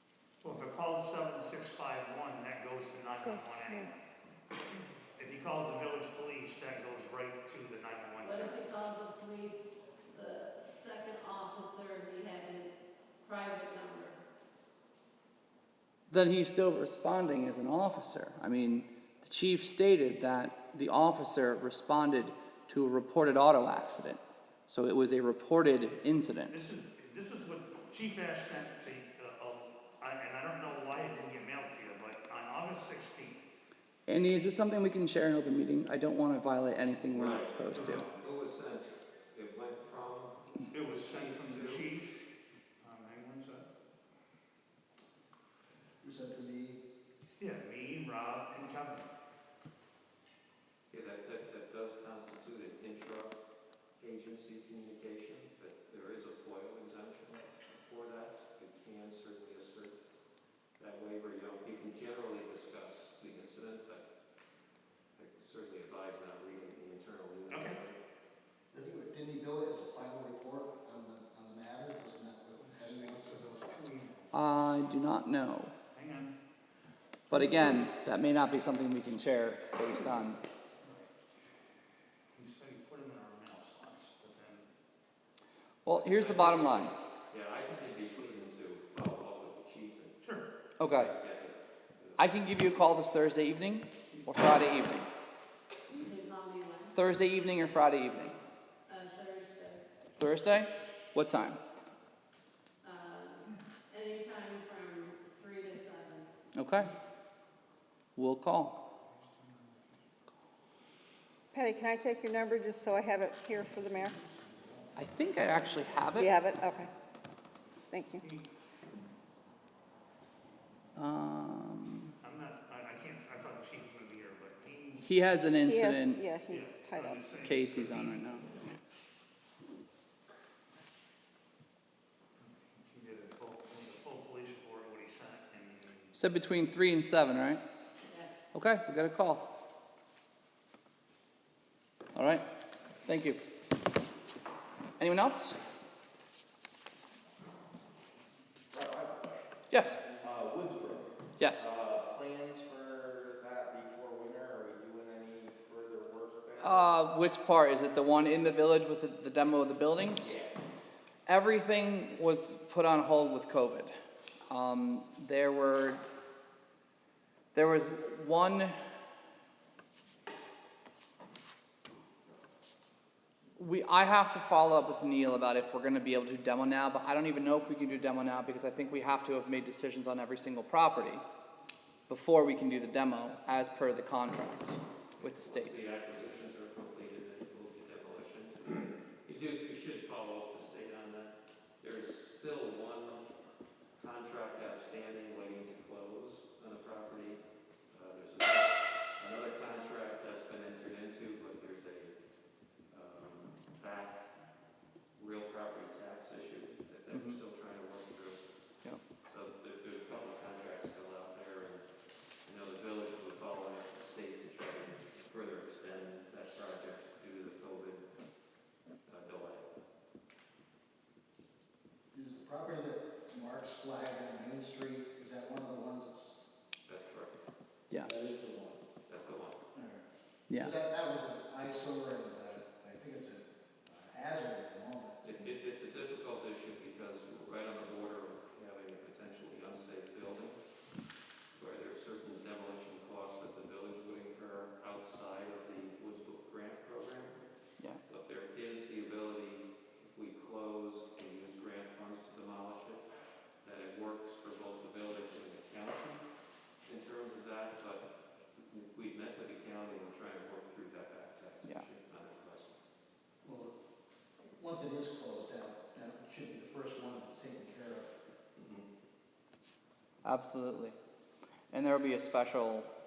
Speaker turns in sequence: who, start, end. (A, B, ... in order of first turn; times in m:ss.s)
0:00.4-0:03.9 A
0:03.2-0:03.9 B
0:05.2-0:08.6 A
0:08.2-0:14.2 C
0:16.1-0:26.6 D
0:26.5-0:33.4 A
0:34.1-0:38.0 D
0:37.1-0:41.9 E
0:37.7-0:38.1 A
0:40.7-0:42.2 A
0:42.8-0:43.7 A
0:46.0-0:46.8 F
0:47.4-0:49.1 A
0:50.9-0:53.4 E
0:54.0-1:00.0 E
1:00.8-1:04.0 E
1:05.2-1:08.0 E
1:07.5-1:07.8 A
1:08.7-1:13.5 F
1:12.7-1:14.4 A
1:14.3-1:15.7 D
1:15.9-1:16.3 A
1:17.3-1:20.4 D
1:20.8-1:21.1 A
1:22.3-1:24.7 A
1:25.8-1:26.9 D
1:25.9-1:26.5 E
1:26.2-1:26.6 A
1:27.3-1:30.2 E
1:30.2-1:30.5 A
1:30.8-1:31.1 D
1:30.8-1:32.2 E
1:32.2-1:35.1 D
1:35.9-1:37.0 C
1:36.9-1:38.3 D
1:38.9-1:39.8 C
1:40.2-1:41.6 D
1:42.8-1:46.3 C
1:46.5-1:46.9 D
1:48.2-1:48.8 D
1:49.0-1:49.8 A
1:51.5-1:54.2 B
1:53.4-1:56.0 A
1:55.0-1:56.4 D
1:56.1-1:56.9 B
1:57.9-1:58.2 B
1:58.2-1:58.5 A
2:01.0-2:02.1 D
2:02.2-2:05.1 A
2:05.0-2:06.2 D
2:05.6-2:07.4 B
2:06.5-2:08.2 A
2:07.4-2:08.5 D
2:12.4-2:16.1 A
2:16.1-2:17.6 D
2:18.1-2:18.5 C
2:18.5-2:19.5 D
2:22.1-2:22.4 D
2:23.0-2:23.4 D
2:25.0-2:25.6 D
2:28.7-2:29.3 G
2:29.7-2:30.0 D
2:30.1-2:36.9 G
2:31.4-2:31.6 D
2:36.6-2:40.3 D
2:40.2-2:40.5 G
2:41.2-2:43.9 D
2:44.5-2:46.0 D
2:47.5-2:48.7 D
2:53.6-3:01.2 D
3:02.1-3:05.8 D
3:05.4-3:13.2 E
3:14.0-3:22.1 E
3:22.9-3:24.2 E
3:25.1-3:28.5 E
3:27.1-3:27.4 D
3:29.2-3:31.8 E
3:32.4-3:38.1 E
3:39.1-3:39.7 E
3:42.1-3:46.4 F
3:46.9-3:47.4 E
3:48.0-3:48.8 F
3:49.1-3:49.6 E
3:49.7-3:50.0 F
3:50.6-3:55.5 F
3:55.2-4:00.6 E
4:01.5-4:07.4 E
4:08.1-4:13.0 E
4:13.6-4:16.2 E
4:16.8-4:22.8 E
4:23.4-4:23.7 F
4:24.4-4:28.1 F
4:28.6-4:28.8 E
4:30.2-4:31.0 D
4:31.7-4:32.9 D